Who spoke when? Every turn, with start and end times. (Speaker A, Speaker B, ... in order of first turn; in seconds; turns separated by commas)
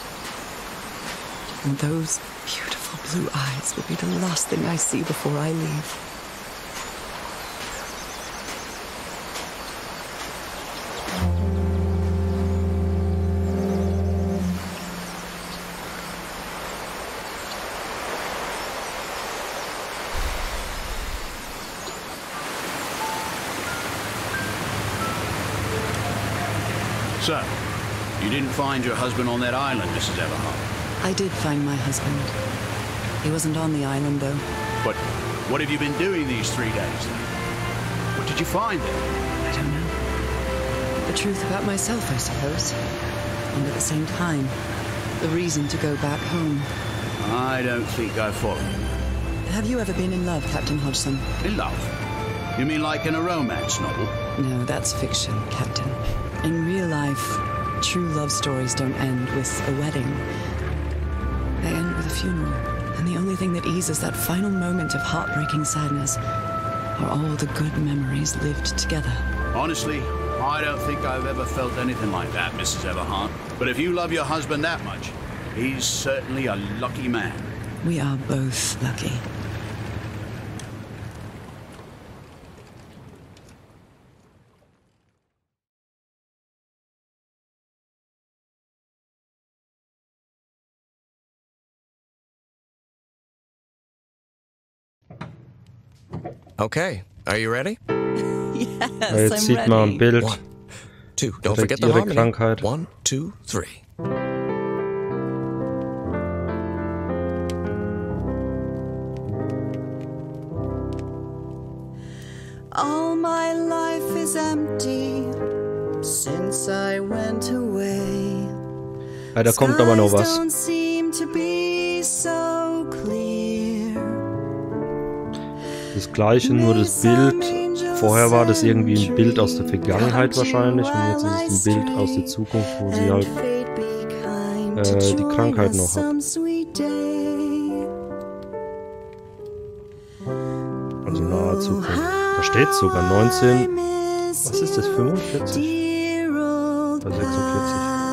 Speaker A: 1.6-6.0, Speaker B: 27.2-27.5, Speaker B: 28.2-30.7, Speaker A: 31.0-32.4, Speaker A: 33.2-34.5, Speaker B: 34.8-37.2, Speaker B: 38.1-39.0, Speaker A: 39.5-40.0, Speaker A: 41.1-42.8, Speaker A: 43.5-44.6, Speaker A: 45.2-46.7, Speaker B: 47.2-48.8, Speaker A: 49.5-51.3, Speaker B: 51.4-51.9, Speaker B: 52.6-54.1, Speaker A: 54.4-60.3, Speaker A: 61.6-66.2, Speaker A: 67.0-69.2, Speaker B: 69.5-77.5, Speaker A: 77.8-79.3, Speaker C: 96.6-97.8, Speaker A: 98.5-100.1, Speaker D: 99.1-100.4, Speaker C: 101.2-103.8, Speaker D: 101.4-102.7, Speaker A: 112.7-115.4, Speaker A: 116.0-118.6, Speaker D: 119.3-120.4, Speaker A: 119.4-124.2, Speaker D: 125.9-133.3, Speaker A: 126.4-137.9, Speaker D: 134.8-136.1, Speaker D: 141.1-143.7, Speaker A: 141.5-142.3, Speaker A: 143.7-147.0, Speaker D: 144.4-145.8, Speaker D: 147.0-147.9